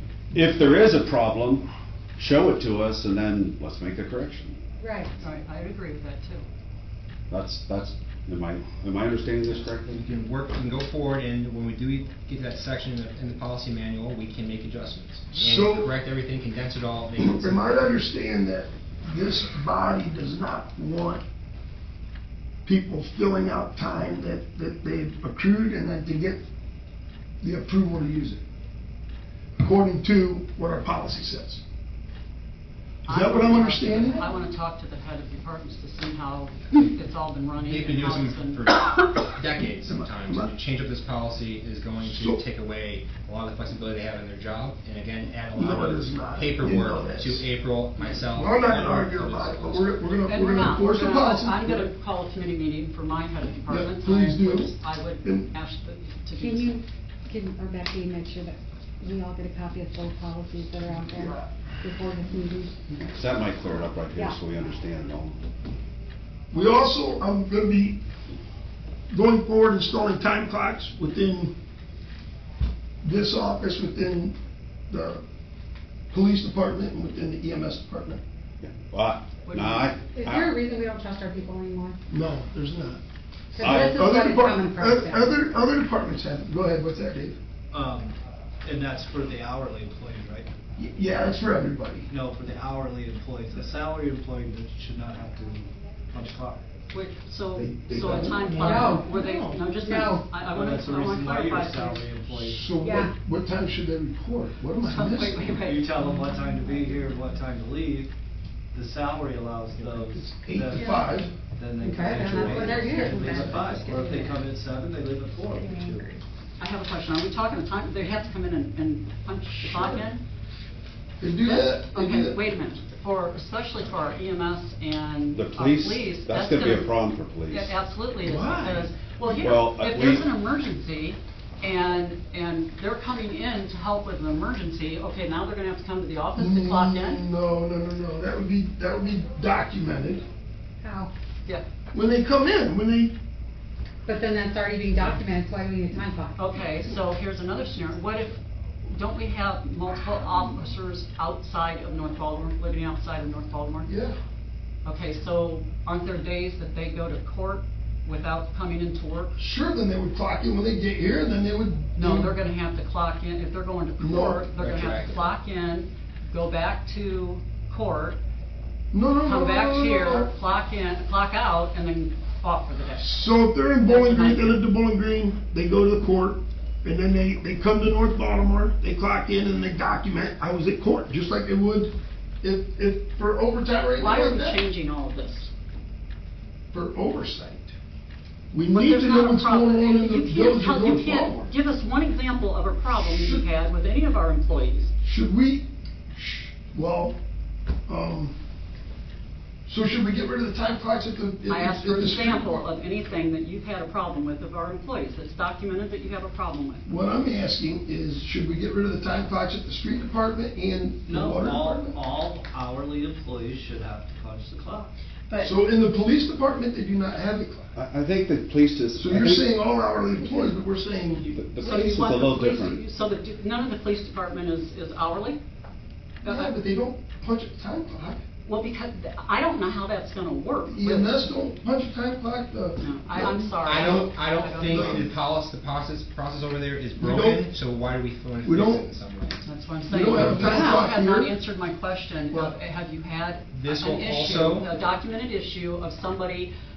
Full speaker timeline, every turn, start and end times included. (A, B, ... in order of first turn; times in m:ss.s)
0:00.3-0:04.6 A
0:04.8-0:05.1 B
0:05.2-0:06.4 C
0:07.3-0:10.0 A
0:10.0-0:17.6 D
0:15.3-0:16.0 E
0:17.2-0:21.2 E
0:22.7-0:26.4 E
0:27.4-0:28.4 E
0:29.6-0:31.6 E
0:33.0-0:34.2 E
0:33.0-0:38.7 C
0:37.7-0:50.1 D
0:39.8-0:40.5 E
0:42.0-0:42.4 E
0:45.5-0:47.4 E
0:48.0-0:51.9 E
0:50.3-0:56.8 C
0:53.7-0:55.5 E
0:56.4-1:02.9 B
1:01.2-1:01.4 E
1:03.0-1:05.4 A
1:06.5-1:08.0 E
1:09.1-1:11.6 E
1:13.0-1:14.4 E
1:14.9-1:15.2 E
1:16.1-1:18.2 E
1:18.6-1:20.6 A
1:19.4-1:19.9 C
1:20.1-1:22.0 B
1:22.1-1:23.0 E
1:23.5-1:25.4 B
1:23.6-1:24.0 A
1:23.7-1:27.4 E
1:27.7-1:30.5 F
1:30.8-1:32.1 E
1:32.1-1:36.7 F
1:36.9-1:42.1 C
1:37.6-1:38.6 E
1:38.6-1:39.1 B
1:39.8-1:40.3 B
1:40.4-1:42.7 F
1:42.4-1:45.6 E
1:42.8-1:43.1 B
1:44.8-1:45.9 C
1:45.6-1:48.1 F
1:48.7-1:56.1 F
1:50.0-1:51.3 E
1:50.8-1:51.1 B
1:51.8-1:54.5 B
1:55.5-1:56.2 B
1:56.6-2:00.2 C
1:59.7-2:00.0 E
2:01.2-2:02.4 E
2:01.4-2:06.9 C
2:05.3-2:07.8 A
2:07.5-2:17.2 C
2:08.2-2:08.6 E
2:09.3-2:10.2 A
2:16.4-2:20.2 E
2:20.8-2:21.1 B
2:21.9-2:23.2 E
2:24.1-2:26.5 B
2:26.4-2:33.9 C
2:33.8-2:34.2 E
2:34.8-2:39.4 C
2:39.4-2:42.3 E
2:42.0-2:48.2 C
2:44.0-2:44.5 E
2:44.6-2:45.3 D
2:48.9-2:50.3 E
2:49.2-2:53.1 C
2:53.0-3:04.6 E
2:53.8-2:54.6 C
3:04.0-3:05.5 C
3:06.7-3:07.8 E
3:08.5-3:11.5 E
3:08.7-3:14.9 C
3:13.1-3:13.4 E
3:15.0-3:17.2 E
3:17.9-3:18.4 E
3:19.6-3:22.6 E
3:21.5-3:26.9 C
3:26.9-3:32.0 E
3:31.1-3:34.9 F
3:35.4-3:37.7 E
3:37.8-3:39.5 A
3:39.0-3:41.3 E
3:41.2-3:42.8 A
3:41.6-3:45.4 C
3:46.2-3:48.2 E
3:46.2-3:46.5 C
3:48.4-3:51.2 C
3:50.7-3:54.1 E
3:52.8-3:55.1 C
3:53.6-3:59.4 D
3:54.6-3:55.1 E
3:57.0-3:57.5 E
3:58.4-3:58.9 E
3:59.4-4:06.5 C
3:59.9-4:01.4 E
4:02.3-4:02.6 E
4:03.5-4:04.7 D